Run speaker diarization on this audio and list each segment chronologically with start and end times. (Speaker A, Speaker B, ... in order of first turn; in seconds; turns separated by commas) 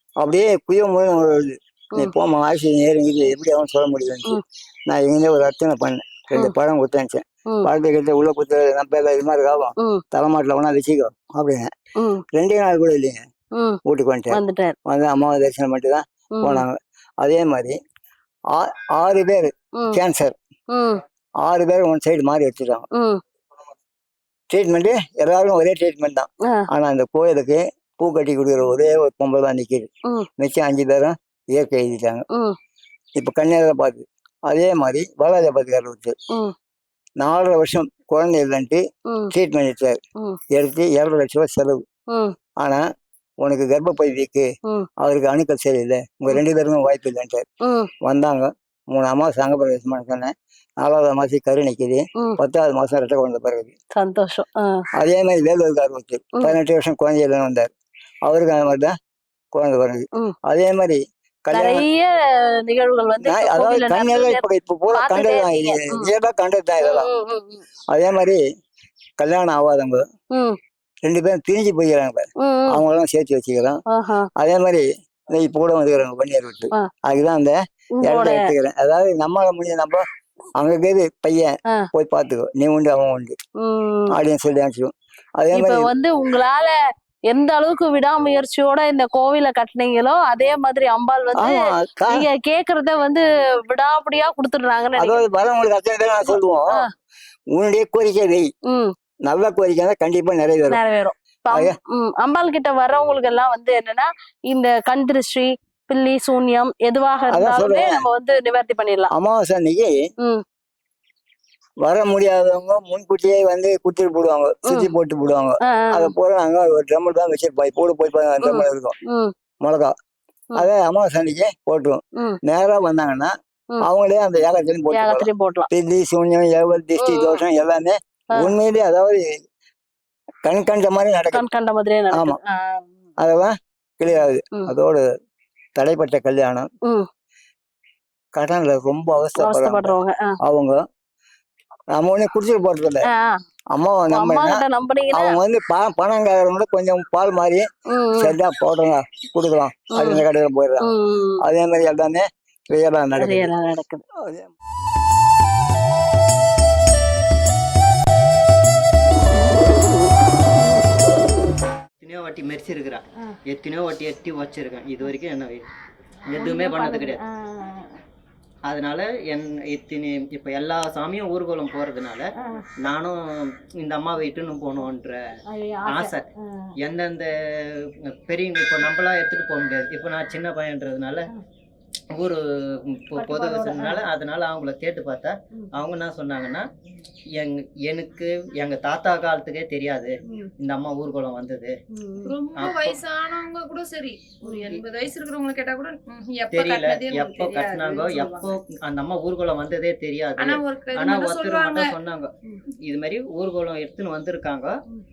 Speaker A: 0.2-11.7, Speaker B: 12.0-12.2, Speaker A: 12.3-13.2, Speaker B: 13.5-13.8, Speaker A: 13.8-17.8, Speaker B: 14.3-14.8, Speaker B: 16.4-16.6, Speaker A: 18.5-20.3, Speaker B: 20.7-21.0, Speaker A: 21.4-22.9, Speaker B: 22.9-23.2, Speaker A: 24.5-32.2, Speaker B: 32.3-32.6, Speaker A: 33.2-36.1, Speaker A: 37.2-40.0, Speaker A: 40.5-41.8, Speaker A: 43.4-47.5, Speaker B: 47.6-47.9, Speaker A: 48.0-53.7, Speaker B: 54.0-54.9, Speaker A: 55.0-57.7, Speaker A: 58.2-58.9, Speaker A: 59.5-61.9, Speaker B: 61.5-66.1, Speaker A: 63.2-67.1, Speaker B: 66.8-67.6, Speaker A: 67.9-68.4, Speaker A: 69.2-70.0, Speaker B: 70.3-70.6, Speaker A: 71.0-73.8, Speaker B: 72.4-72.8, Speaker B: 73.9-74.3, Speaker A: 74.4-80.0, Speaker B: 78.0-78.5, Speaker A: 80.6-83.4, Speaker B: 83.6-84.1, Speaker A: 84.1-85.9, Speaker B: 85.5-86.8, Speaker B: 87.3-95.2, Speaker A: 91.3-92.3, Speaker A: 95.0-96.8, Speaker B: 96.3-96.9, Speaker A: 97.5-98.5, Speaker B: 98.7-98.9, Speaker A: 99.2-100.8, Speaker B: 100.7-109.1, Speaker A: 101.5-101.8, Speaker A: 107.3-108.0, Speaker A: 109.1-109.9, Speaker A: 111.8-118.9, Speaker B: 115.6-116.1, Speaker B: 118.4-119.3, Speaker A: 119.6-119.9, Speaker A: 120.5-123.3, Speaker A: 123.8-129.3, Speaker B: 124.9-125.7, Speaker B: 127.0-127.4, Speaker A: 130.4-131.4, Speaker B: 131.3-132.9, Speaker A: 132.1-132.4, Speaker A: 133.2-135.1, Speaker A: 135.8-136.7, Speaker A: 138.3-140.8, Speaker B: 139.4-140.3, Speaker A: 141.9-143.1, Speaker B: 143.1-143.4, Speaker A: 143.7-147.6, Speaker B: 144.1-145.4, Speaker B: 147.9-148.3, Speaker A: 148.2-150.9, Speaker B: 149.9-150.2, Speaker B: 150.8-151.4, Speaker A: 151.4-153.5, Speaker B: 153.2-154.0, Speaker A: 154.2-154.5, Speaker C: 162.0-165.7, Speaker C: 166.3-167.2, Speaker B: 166.3-167.9, Speaker C: 168.7-172.3, Speaker B: 172.4-172.7, Speaker C: 172.8-175.2, Speaker B: 175.5-176.7, Speaker C: 175.9-176.2, Speaker C: 176.8-181.3, Speaker C: 182.1-182.4, Speaker C: 182.9-186.6, Speaker B: 183.1-184.0, Speaker C: 187.4-191.7, Speaker B: 191.9-192.3, Speaker D: 192.2-198.6, Speaker C: 192.5-193.0, Speaker C: 196.5-202.3, Speaker D: 200.4-201.9, Speaker C: 202.8-204.7